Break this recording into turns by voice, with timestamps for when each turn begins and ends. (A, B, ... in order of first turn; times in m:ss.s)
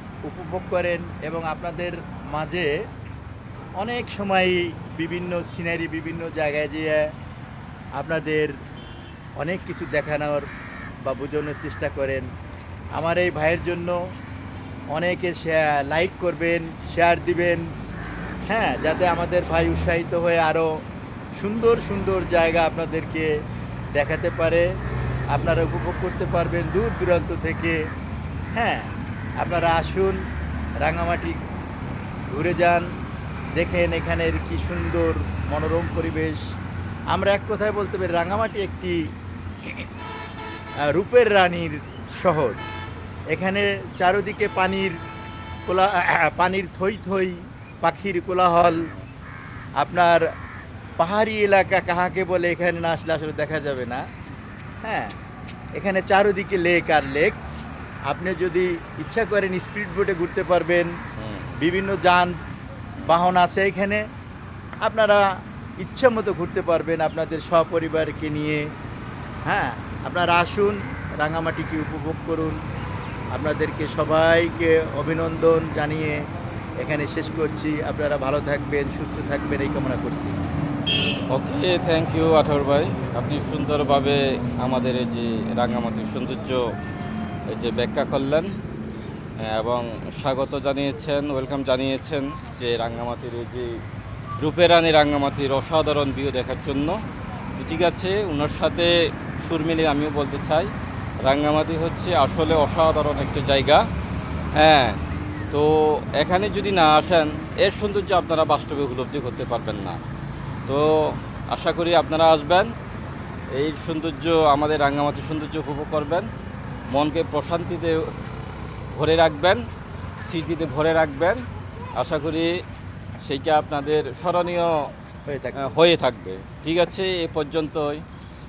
0:00.2-0:02.7 A
0:03.8-0:07.1 A
0:08.0-0:08.5 A
0:09.4-0:10.5 A
0:11.0-0:12.3 A
0:13.0-0:14.0 A
0:14.9-0:17.7 A
0:18.5-0:20.7 A
0:21.4-0:23.3 A
0:23.9-0:24.6 A
0:25.3-0:27.8 A
0:28.6-0:30.2 A
0:30.8-0:31.4 A
0:32.3-0:32.9 A
0:33.6-0:36.4 A
0:37.1-0:39.0 A
0:40.8-0:42.6 A
0:43.3-0:45.0 A
0:45.7-0:48.9 A
0:48.7-0:49.0 B
0:49.8-0:50.2 A
0:51.0-0:54.0 A
0:54.8-0:55.2 A
0:55.8-0:57.4 A
0:58.1-1:00.9 A
1:01.2-1:01.6 B
1:01.6-1:02.4 A
1:03.0-1:04.0 A
1:04.8-1:05.2 A
1:05.8-1:08.7 A
1:09.5-1:12.6 A
1:13.3-1:16.2 A
1:16.8-1:20.4 A
1:21.3-1:26.6 B
1:27.5-1:28.5 B
1:29.4-1:33.8 B
1:34.4-1:37.0 B
1:37.6-1:40.7 B
1:41.2-1:43.8 B
1:44.6-1:45.0 B
1:45.5-1:50.0 B
1:50.7-1:52.7 B
1:53.5-1:56.3 B
1:56.9-1:58.0 B
1:58.9-1:59.6 B
2:00.2-2:01.4 B
2:02.0-2:02.5 B
2:03.2-2:04.7 B
2:05.3-2:05.7 A
2:05.6-2:08.0 B